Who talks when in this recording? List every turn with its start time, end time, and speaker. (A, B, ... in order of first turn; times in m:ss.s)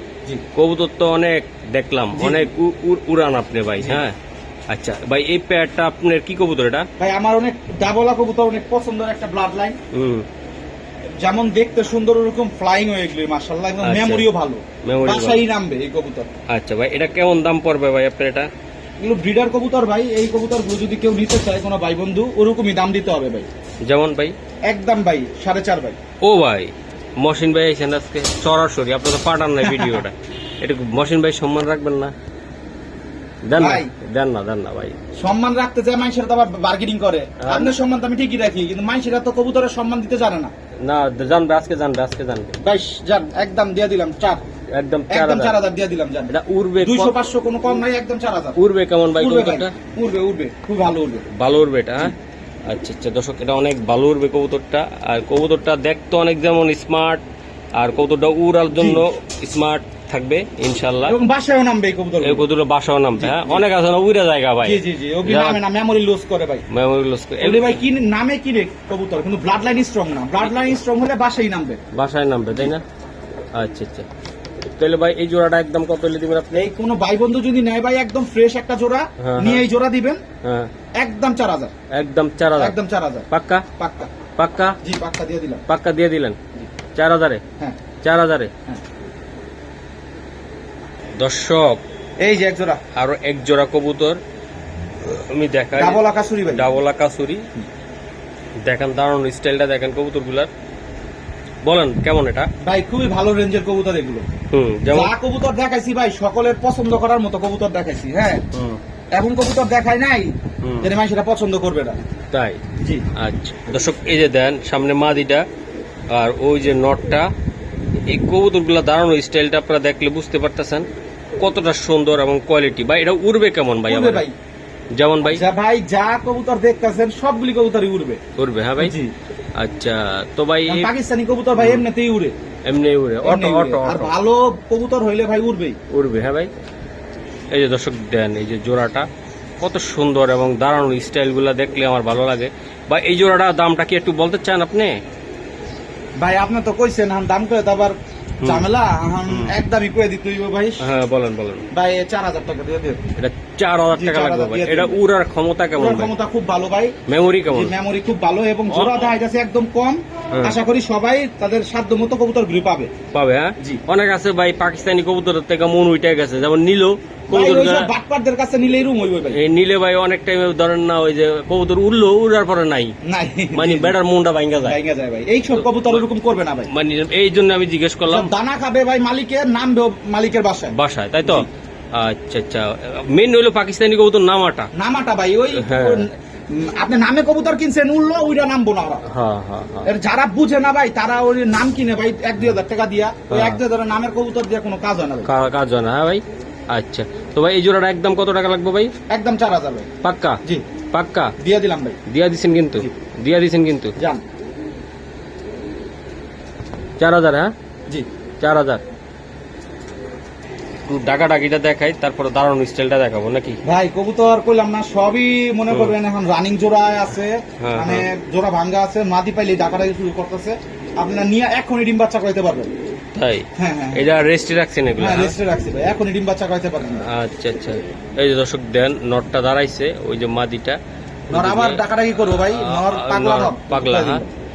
0:00.5-0:04.2 A
0:02.1-0:02.5 B
0:03.8-0:04.0 B
0:04.7-0:06.9 A
0:07.0-0:09.8 B
0:09.9-0:10.2 A
0:11.2-0:16.3 B
0:13.8-0:14.3 A
0:14.8-0:15.4 A
0:16.5-0:18.5 A
0:19.0-0:23.5 B
0:23.9-0:24.3 A
0:24.7-0:26.0 B
0:26.2-0:32.1 A
0:29.6-0:30.0 B
0:33.5-0:35.0 A
0:33.6-0:33.9 B
0:35.2-0:40.5 B
0:37.4-0:37.7 A
0:40.8-0:42.5 A
0:42.6-0:44.4 B
0:44.7-0:45.6 A
0:45.1-0:48.6 B
0:46.3-0:47.2 A
0:48.6-0:49.7 A
0:49.2-0:51.2 B
0:51.3-0:52.1 A
0:52.7-0:57.2 A
0:57.8-1:01.2 A
0:58.7-0:59.0 B
1:01.0-1:02.4 B
1:02.2-1:05.6 A
1:03.2-1:03.6 B
1:04.6-1:06.6 B
1:06.7-1:07.8 A
1:07.4-1:11.8 B
1:10.4-1:10.7 A
1:11.9-1:12.8 A
1:13.6-1:14.1 A
1:14.8-1:16.6 A
1:16.5-1:20.2 B
1:19.2-1:19.6 A
1:20.4-1:20.7 A
1:21.0-1:21.7 B
1:21.9-1:22.8 A
1:22.6-1:23.3 B
1:23.3-1:23.6 A
1:23.8-1:24.1 B
1:24.4-1:24.8 A
1:24.8-1:25.6 B
1:25.7-1:26.4 A
1:27.0-1:27.4 A
1:28.0-1:28.5 A
1:31.2-1:31.8 A
1:32.2-1:32.8 B
1:32.9-1:34.2 A
1:35.0-1:37.4 A
1:35.7-1:36.6 B
1:38.6-1:40.5 A
1:41.6-1:42.5 A
1:42.6-1:44.2 B
1:44.5-1:45.1 A
1:44.9-1:48.4 B
1:48.5-1:48.8 A
1:49.1-1:52.0 B
1:50.6-1:50.9 A
1:52.3-1:52.6 A
1:53.2-1:55.4 A
1:56.1-1:57.3 A
1:58.1-2:00.8 A
2:01.4-2:04.2 A
2:03.9-2:04.3 B
2:04.9-2:05.4 A
2:05.2-2:08.2 B
2:08.4-2:09.0 A
2:08.8-2:09.1 B
2:09.6-2:10.9 A
2:10.7-2:12.3 B
2:11.6-2:11.8 A
2:12.7-2:14.1 A
2:13.2-2:15.8 B
2:15.9-2:16.5 A
2:17.5-2:19.0 A
2:19.6-2:24.9 A
2:26.2-2:30.8 B
2:29.3-2:29.5 A
2:30.8-2:31.6 A
2:31.7-2:33.0 B
2:33.2-2:36.1 A
2:33.9-2:35.0 B
2:35.8-2:36.9 B
2:37.1-2:37.7 A
2:37.5-2:42.9 B
2:38.7-2:39.1 A
2:40.3-2:40.6 A
2:43.1-2:47.9 A
2:47.3-2:49.4 B
2:49.3-2:52.9 A
2:53.0-2:54.0 B
2:53.5-2:54.8 A
2:54.6-2:56.7 B
2:55.5-2:56.1 A
2:56.7-2:58.3 A
2:58.1-3:00.7 B
3:00.7-3:04.7 A
3:04.7-3:09.0 B
3:05.5-3:06.0 A
3:09.1-3:09.9 A
3:09.8-3:15.3 B
3:13.3-3:13.6 A
3:15.3-3:18.9 A
3:19.1-3:19.9 B
3:20.0-3:20.4 A
3:20.9-3:21.3 A
3:21.4-3:22.0 B
3:22.1-3:23.9 A
3:27.0-3:27.5 A
3:28.4-3:28.8 A
3:30.9-3:33.6 A
3:33.6-3:42.7 B
3:37.6-3:38.1 A
3:43.1-3:45.4 A
3:43.6-3:44.0 B
3:45.0-3:47.1 B
3:46.8-3:50.8 A
3:51.3-3:54.2 A
3:51.3-3:54.3 B